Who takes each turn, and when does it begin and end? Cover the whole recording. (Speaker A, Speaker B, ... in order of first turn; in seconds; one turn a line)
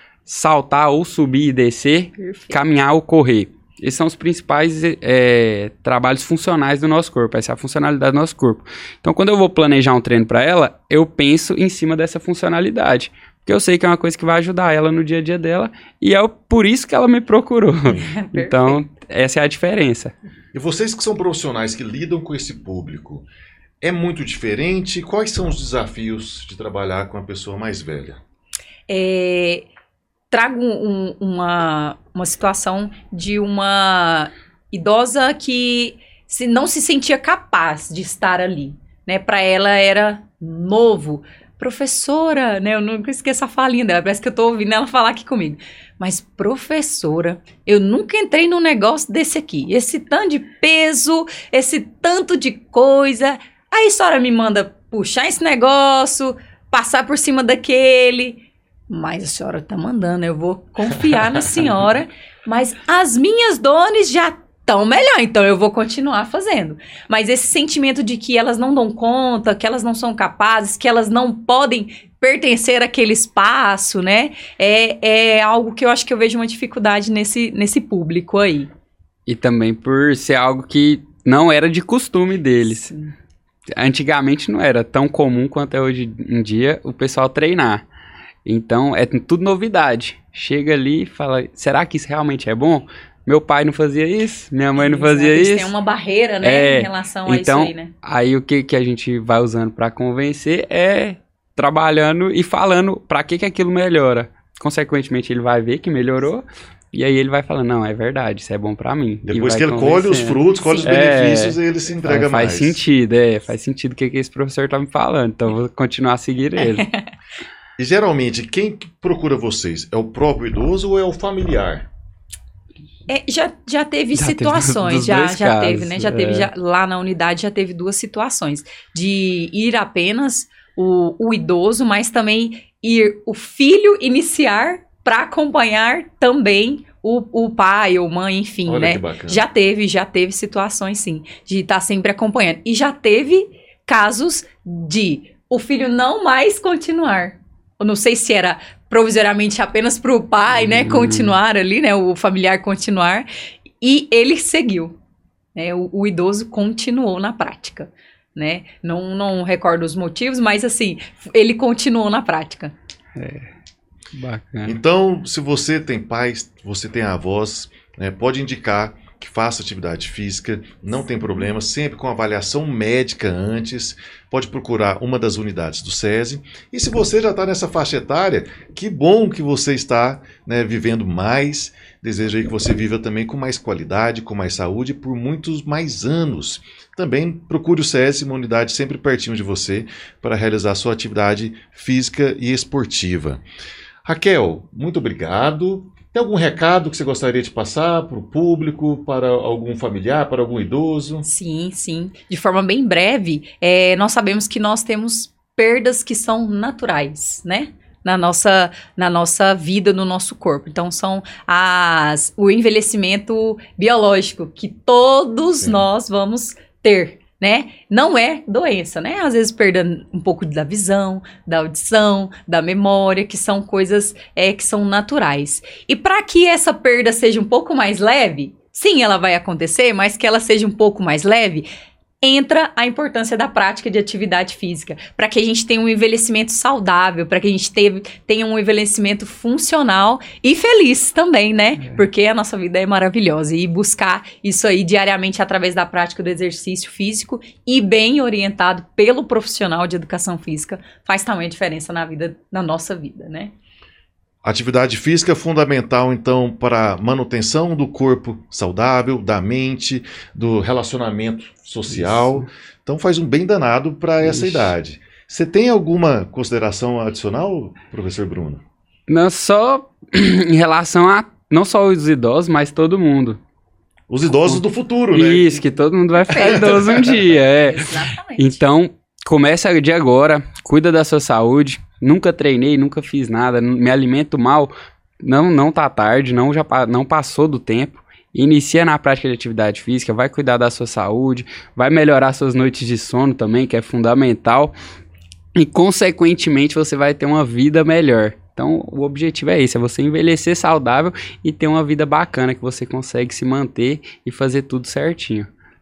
Speaker A: 0.2-20.1
Speaker B: 2.1-2.6
Speaker B: 17.9-18.8
Speaker C: 20.5-23.3
Speaker C: 23.8-28.2
Speaker B: 28.9-29.6
Speaker B: 30.3-78.7
Speaker A: 79.3-82.9
Speaker A: 83.7-87.8
Speaker A: 88.4-95.7
Speaker B: 94.8-97.9
Speaker A: 96.4-116.9
Speaker C: 109.2-112.8
Speaker B: 110.5-110.9
Speaker B: 116.6-117.1
Speaker C: 117.8-121.9
Speaker B: 123.1-153.3
Speaker A: 124.1-126.5
Speaker C: 138.7-139.4
Speaker A: 150.5-151.3
Speaker B: 153.8-154.9
Speaker B: 155.5-162.7
Speaker A: 163.1-163.5
Speaker A: 164.1-164.8
Speaker C: 164.6-193.4
Speaker C: 194.0-201.2
Speaker B: 201.2-231.7
Speaker C: 215.6-215.9
Speaker B: 232.2-253.5
Speaker C: 254.4-268.6
Speaker A: 261.9-262.5
Speaker A: 264.2-264.7
Speaker A: 269.1-273.4
Speaker C: 274.1-275.6
Speaker A: 274.3-294.7
Speaker B: 276.2-276.8
Speaker C: 276.3-277.2
Speaker B: 277.5-278.6
Speaker A: 295.6-305.5